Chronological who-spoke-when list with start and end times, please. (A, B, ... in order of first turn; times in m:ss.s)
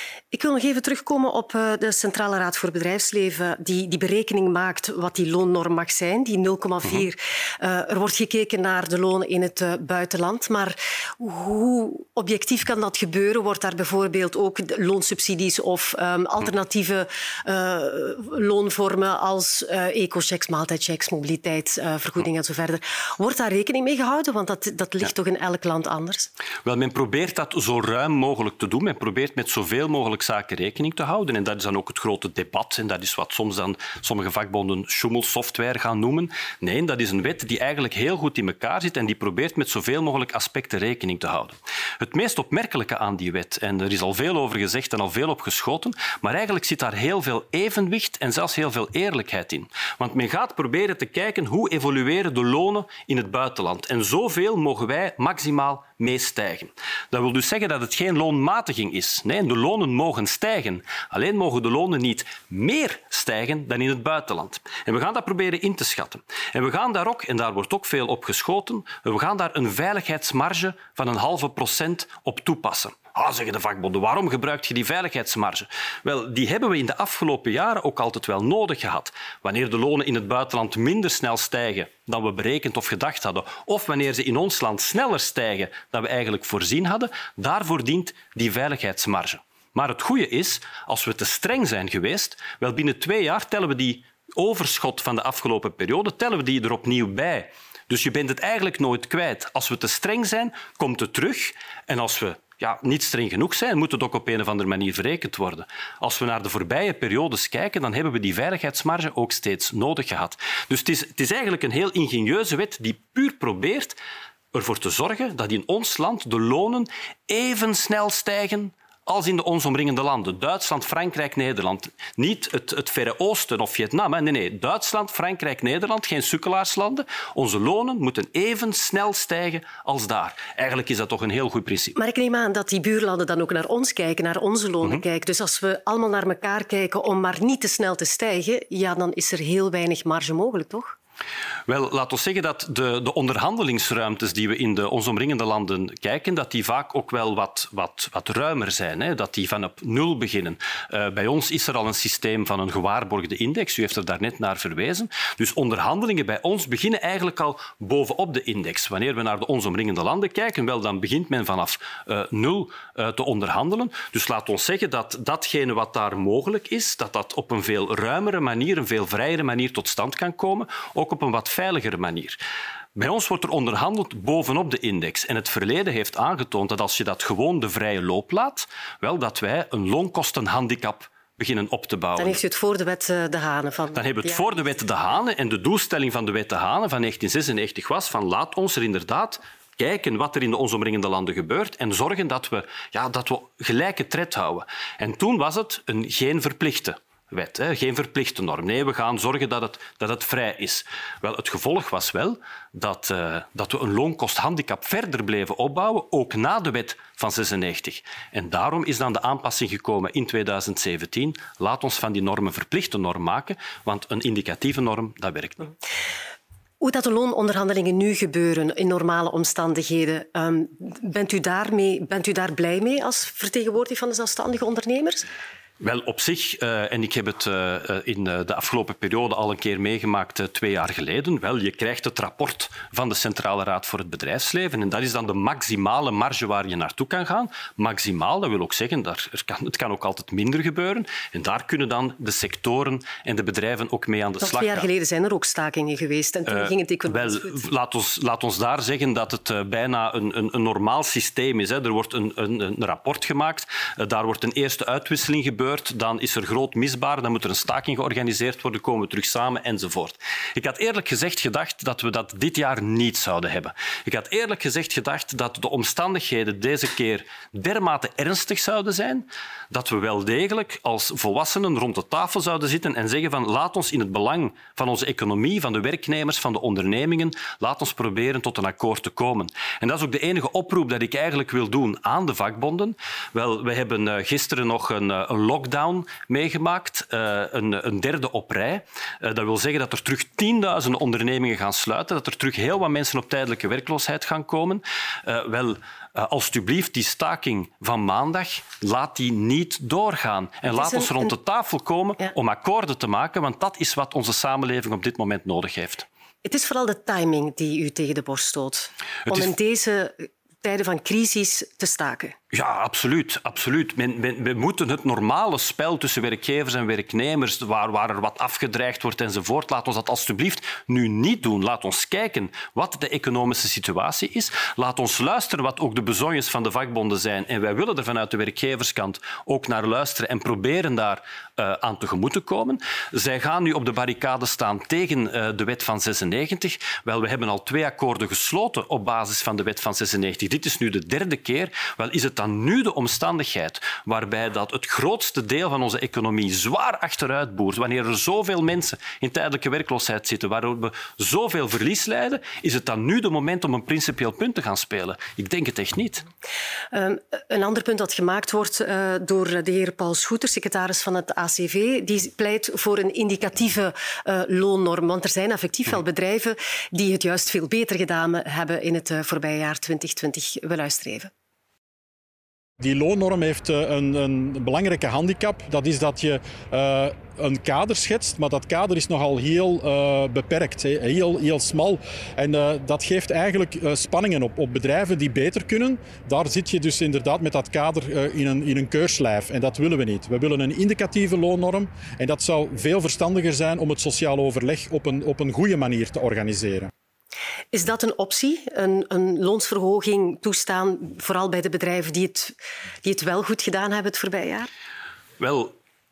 0:00.3-0:26.3 A
0:26.6-1:54.0 B
1:54.5-2:12.0 B
2:12.0-2:21.0 A
2:21.7-2:52.4 B
2:53.0-3:02.4 B
3:02.2-3:04.7 A
3:03.9-3:35.6 B
3:36.8-3:45.3 A
3:45.8-4:04.9 B
4:04.4-4:07.6 A
4:06.6-5:06.0 B
5:00.7-5:01.3 A
5:06.4-5:12.4 A
5:12.5-5:56.2 B
5:56.9-6:11.3 A
6:12.8-6:36.9 C
6:37.7-6:44.7 A
6:45.4-6:45.7 B